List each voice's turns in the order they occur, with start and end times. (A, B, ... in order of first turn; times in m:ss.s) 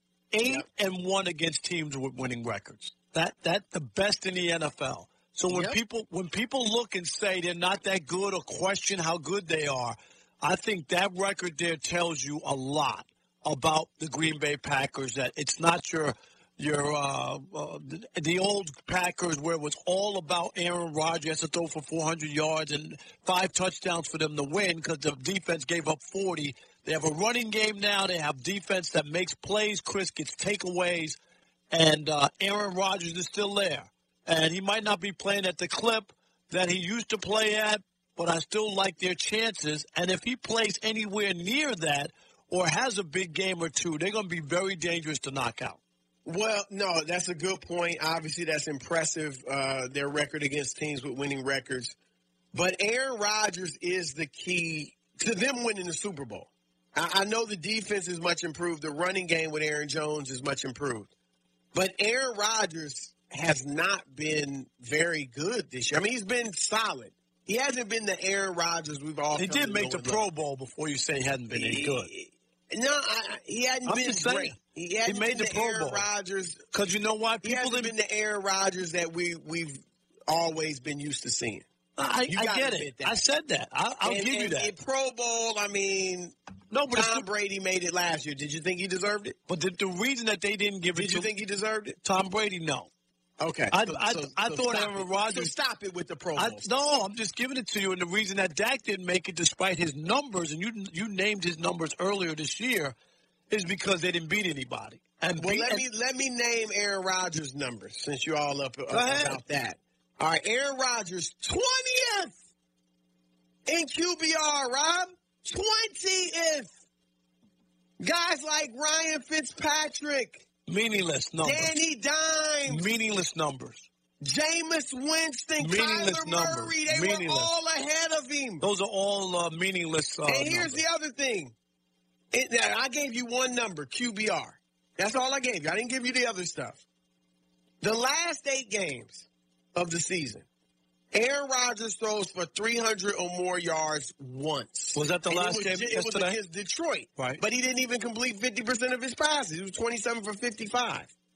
0:00.3-0:31.2 A
0:05.5-0:05.8 B
0:31.7-0:45.8 A
0:46.2-0:52.0 B
0:52.5-1:01.1 B
1:01.7-1:10.2 B
1:09.4-1:12.1 A
1:11.5-1:16.6 B
1:13.9-1:16.0 A
1:16.7-1:17.9 A
1:17.4-1:21.7 B
1:22.0-1:24.7 A
1:22.3-1:23.2 B
1:24.0-1:26.3 B
1:26.7-1:27.3 A
1:26.9-1:29.4 B
1:29.5-1:31.3 A
1:30.9-1:32.0 B
1:32.0-1:32.9 A
1:33.4-1:36.7 B
1:33.7-1:35.5 A
1:36.4-1:43.0 A
1:43.5-1:45.8 A
1:45.4-1:52.4 B
1:48.9-1:49.4 A
1:53.7-1:56.7 B
1:58.0-2:00.5 B
2:00.7-2:01.7 A
2:01.4-2:02.9 B
2:02.7-2:03.9 A
2:04.2-2:08.7 B
2:05.6-2:07.5 A
2:08.6-2:10.8 A
2:10.2-2:11.5 B
2:12.3-2:16.8 B
2:17.8-2:20.5 B
2:21.1-2:31.1 B
2:25.0-2:26.4 A